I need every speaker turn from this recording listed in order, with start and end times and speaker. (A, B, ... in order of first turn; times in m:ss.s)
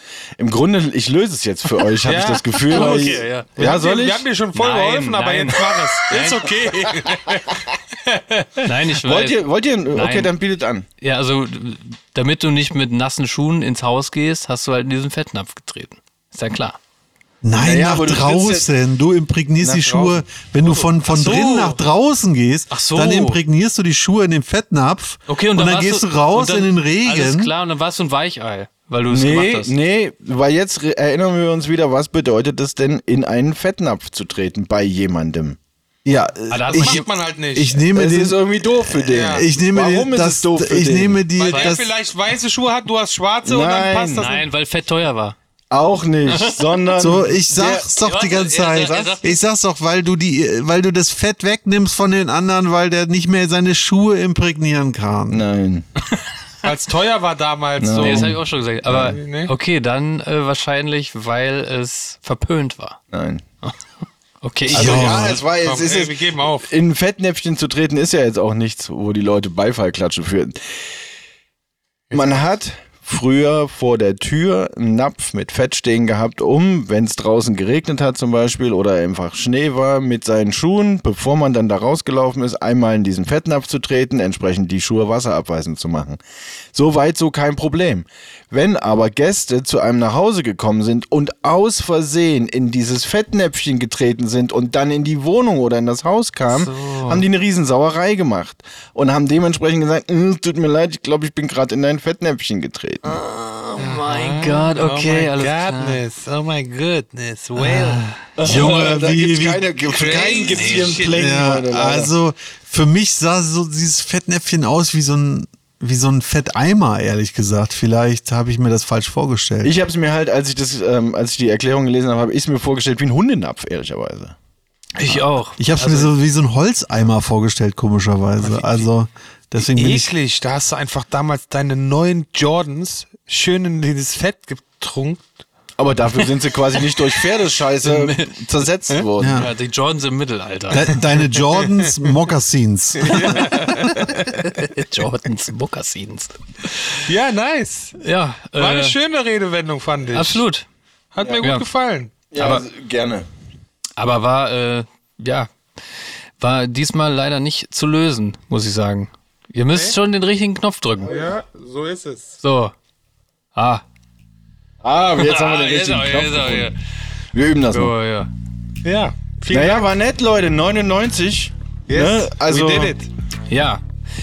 0:00.4-0:04.2 A
0:02.0-0:08.6 B
0:02.6-0:03.8 C
0:04.5-0:06.6 C
0:08.6-0:10.3 C
0:09.0-0:10.8 A
0:11.0-0:16.8 C
0:17.4-0:27.5 D
0:17.6-0:18.7 A
0:19.6-0:20.8 A
0:21.0-0:21.8 C
0:22.7-0:23.4 C
0:25.3-0:29.7 C
0:29.1-0:35.6 A
0:36.0-0:41.9 D
0:36.5-0:37.0 C
0:36.7-0:37.8 B
0:37.9-0:41.2 A
0:39.1-0:39.4 B
0:41.4-0:44.4 B
0:41.5-0:41.8 C
0:43.4-0:44.3 A
0:44.2-0:45.4 C
0:45.7-0:47.9 A
0:46.3-0:46.6 C
0:46.9-0:55.4 D
0:48.0-0:49.4 C
0:55.3-0:55.8 A
0:56.6-0:58.4 B
0:57.8-0:59.2 A
0:58.0-1:03.0 C
0:59.1-0:59.5 B
1:03.1-1:03.4 A
1:04.4-1:05.4 C
1:04.7-1:10.6 A
1:04.7-1:05.4 D
1:05.4-1:06.7 B
1:12.1-1:26.2 A
1:26.7-1:43.2 A
1:36.5-1:37.3 C
1:43.0-1:46.0 C
1:43.8-1:48.1 B
1:48.4-1:49.7 D
1:48.4-1:52.1 A
1:49.8-1:51.2 B
1:50.4-1:51.0 C
1:51.0-1:59.7 D
1:59.6-2:04.3 A
2:05.0-2:06.1 C
2:05.1-2:10.1 D
2:08.4-2:08.9 B
2:09.6-2:15.2 B
2:15.8-2:19.5 A
2:17.4-2:21.0 C
2:19.2-2:19.5 D
2:20.7-2:23.8 D
2:21.4-2:21.9 B
2:23.0-2:24.4 B
2:24.4-2:27.0 C
2:27.0-2:28.0 B
2:28.0-2:29.0 C
2:28.6-2:30.4 B
2:30.1-2:30.6 C
2:31.1-2:32.6 B
2:31.4-2:31.6 C
2:32.3-2:33.2 A
2:34.0-2:35.5 C
2:36.4-2:41.1 C
2:41.1-2:42.3 B
2:42.4-2:42.7 C
2:43.5-2:43.8 C
2:44.8-2:46.7 A
2:45.1-2:46.8 C
2:47.3-2:47.9 A
2:47.7-2:48.3 C
2:48.8-2:49.9 B
2:49.5-2:52.9 A
2:51.9-2:53.1 B
2:53.5-2:53.8 C